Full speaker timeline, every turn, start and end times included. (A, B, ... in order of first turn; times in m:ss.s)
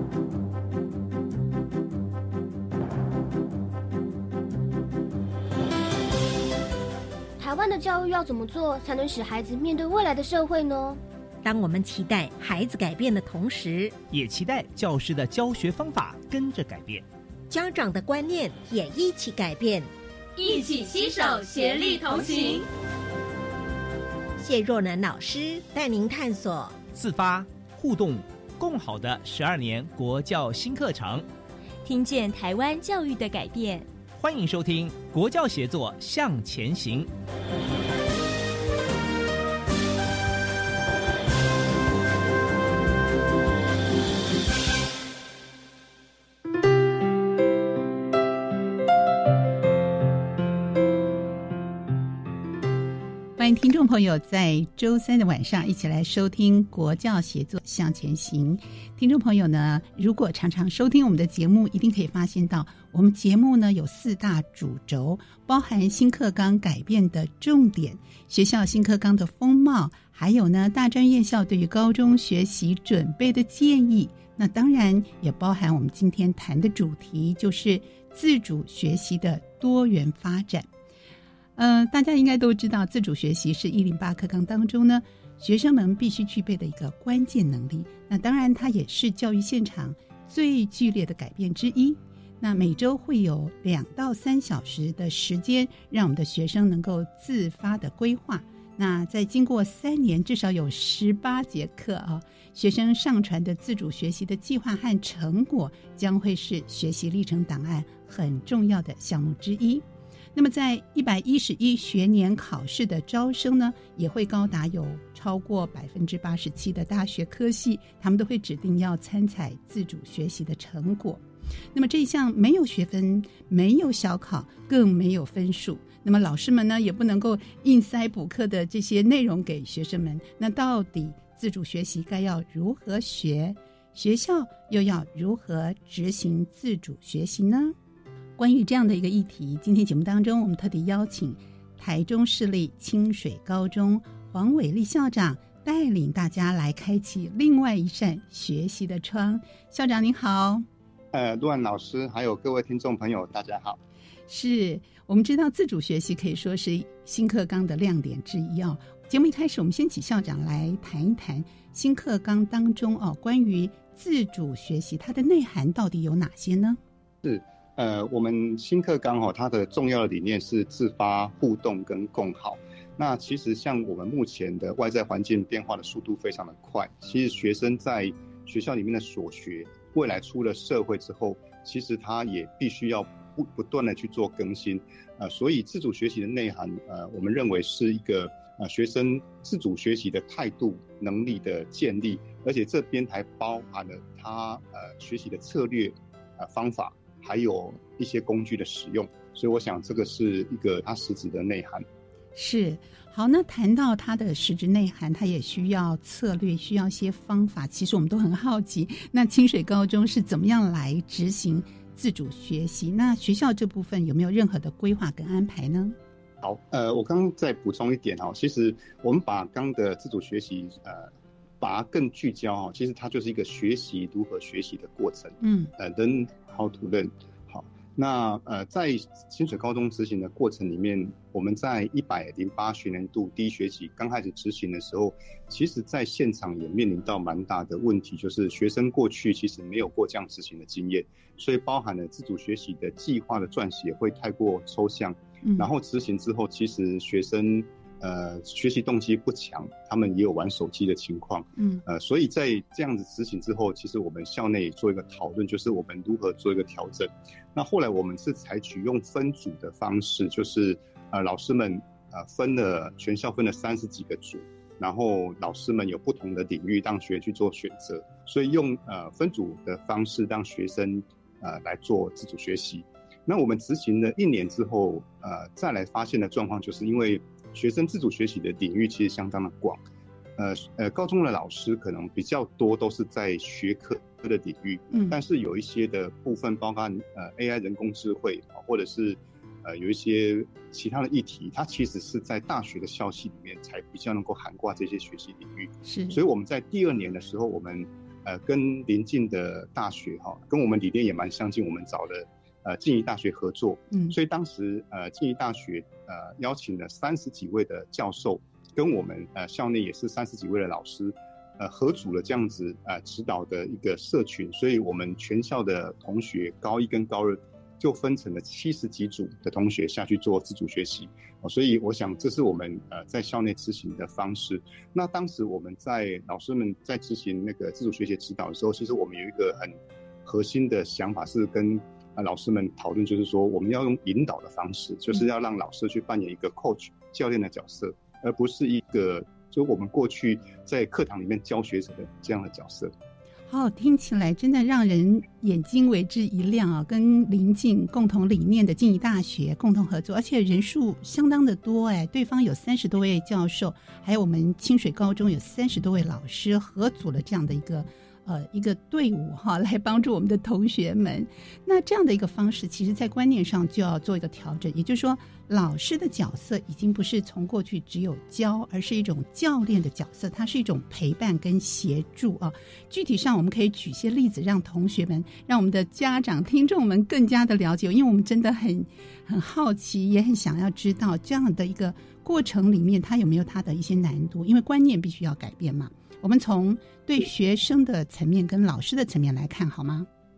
0:07.4-0:11.0 A
0:11.4-0:13.9 B
0:14.1-0:17.0 C
0:17.5-0:19.9 B
0:20.4-0:22.6 D
0:24.4-0:26.7 B
0:26.9-0:31.2 C
0:31.8-0:33.9 D
0:34.2-0:37.1 C
0:53.4-1:20.7 E
1:21.6-1:49.8 E
1:50.3-2:01.2 E
2:01.7-2:17.7 E
2:18.4-2:30.6 E
2:31.1-2:33.8 F
2:34.3-2:46.8 E
2:47.2-3:21.8 F
3:22.3-3:36.0 E
3:36.4-4:39.8 F
3:45.4-3:45.7 E
4:05.4-4:05.7 E
4:11.6-4:11.8 E
4:40.4-5:42.9 F
4:55.8-4:56.2 E
5:43.5-6:30.1 E